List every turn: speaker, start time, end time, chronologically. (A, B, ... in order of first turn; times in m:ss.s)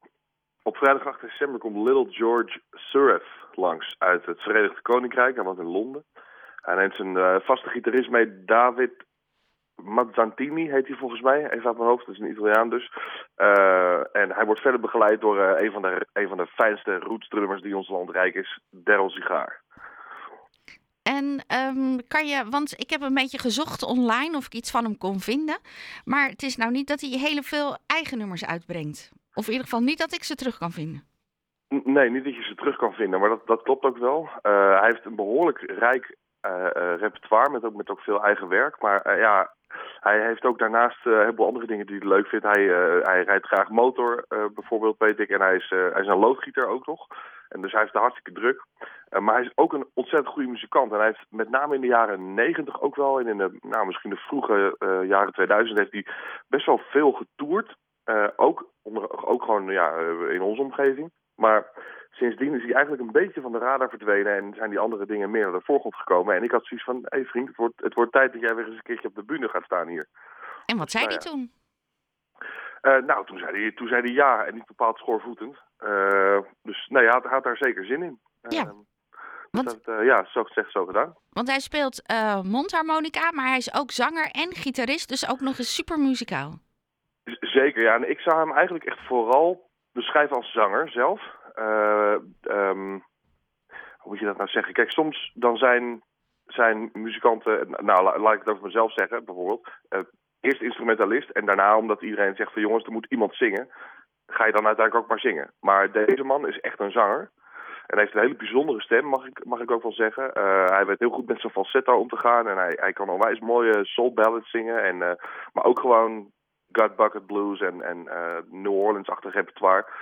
0:00.7-0:06.0 A
0:06.7-0:09.0 A
0:09.8-0:19.6 A
0:21.1-0:31.0 B
0:31.7-0:39.5 A
0:40.0-1:10.1 A
1:10.7-1:11.5 B
1:10.9-1:11.3 A
1:12.8-1:18.8 A
1:19.5-1:21.2 A
1:21.3-1:26.6 B
1:27.3-1:33.0 A
1:34.0-1:43.7 A
1:44.3-1:47.3 A
1:47.9-1:59.9 A